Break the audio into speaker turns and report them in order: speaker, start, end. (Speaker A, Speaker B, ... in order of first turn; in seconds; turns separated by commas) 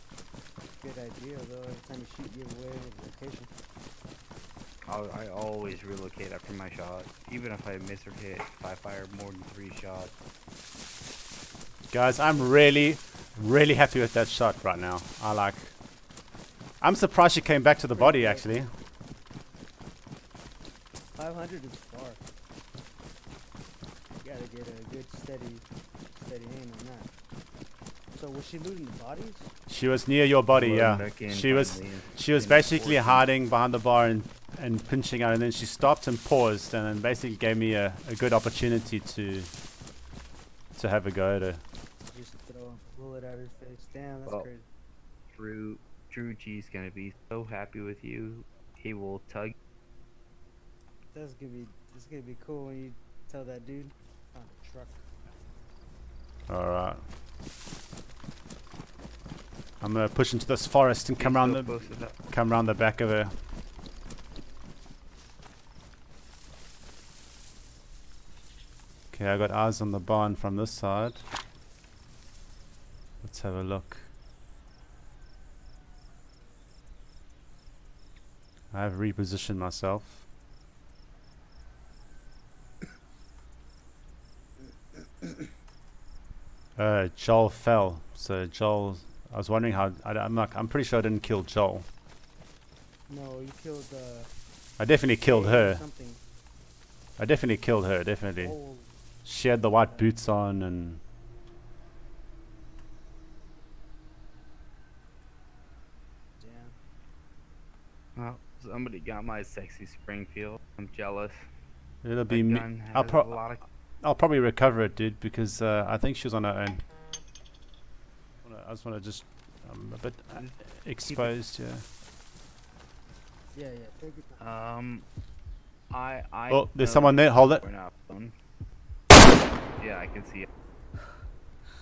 Speaker A: 0.8-3.5, Speaker B: 4.9-10.1, Speaker C: 11.9-15.8, Speaker C: 16.8-18.7, Speaker A: 17.9-18.5, Speaker A: 21.1-22.2, Speaker A: 24.2-27.1, Speaker A: 28.1-29.5, Speaker C: 29.7-39.5, Speaker B: 30.5-33.3, Speaker C: 40.8-41.6, Speaker A: 42.1-44.6, Speaker B: 45.3-49.5, Speaker A: 51.1-55.0, Speaker C: 56.5-57.0, Speaker C: 59.8-63.4, Speaker B: 61.2-62.3, Speaker C: 69.1-71.3, Speaker C: 73.2-74.1, Speaker C: 78.7-80.2, Speaker C: 86.8-91.9, Speaker A: 93.1-94.3, Speaker C: 94.8-95.8, Speaker A: 95.2-96.2, Speaker C: 97.2-98.6, Speaker A: 98.4-98.9, Speaker C: 99.2-101.0, Speaker A: 99.8-100.1, Speaker A: 106.4-106.8, Speaker B: 108.2-111.5, Speaker C: 112.0-113.4, Speaker B: 112.3-113.7, Speaker C: 114.0-116.8, Speaker C: 118.4-121.8, Speaker B: 120.4-121.3, Speaker A: 123.5-124.4, Speaker B: 124.4-125.1, Speaker B: 125.9-128.3, Speaker C: 126.5-127.6, Speaker B: 129.8-130.5